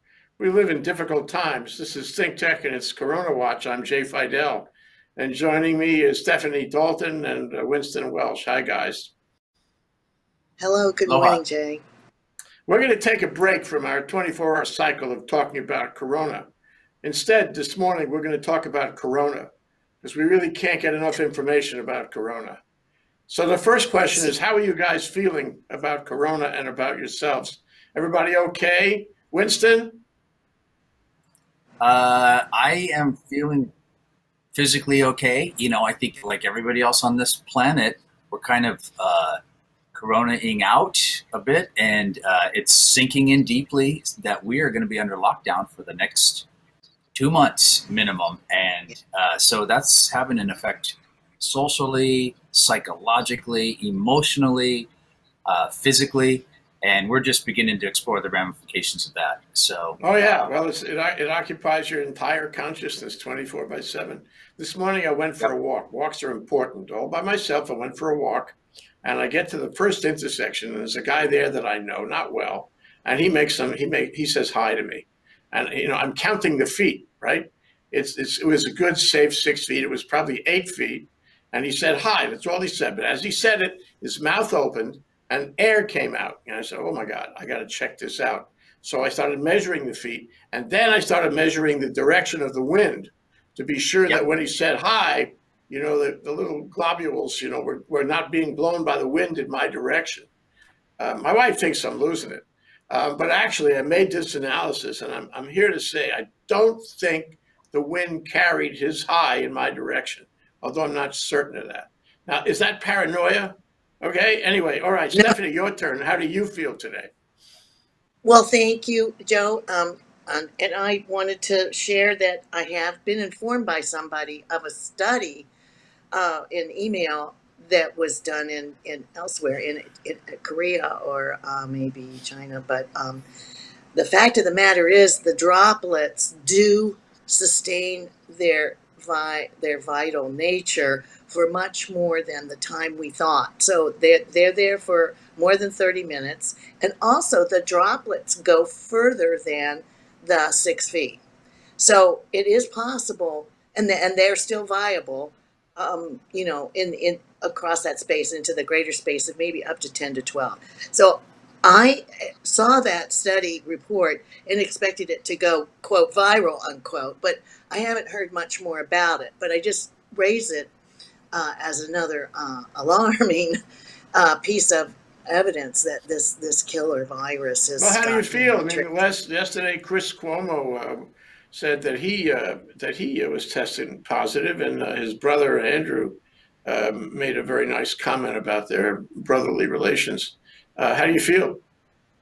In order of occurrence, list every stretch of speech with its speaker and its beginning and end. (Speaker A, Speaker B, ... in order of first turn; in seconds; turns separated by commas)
Speaker A: 0.4-9.1, Speaker B: 10.6-11.8, Speaker C: 11.1-11.4, Speaker A: 12.7-16.5, Speaker A: 17.0-19.5, Speaker A: 20.0-22.6, Speaker A: 23.3-30.0, Speaker C: 31.8-33.7, Speaker C: 34.5-39.4, Speaker C: 39.9-46.5, Speaker C: 47.1-54.9, Speaker C: 55.5-60.5, Speaker A: 60.0-100.3, Speaker A: 101.0-117.1, Speaker B: 118.2-125.5, Speaker B: 126.1-133.2, Speaker B: 133.9-151.2, Speaker B: 151.8-170.7, Speaker B: 171.3-173.6, Speaker B: 174.1-178.9, Speaker A: 177.8-191.6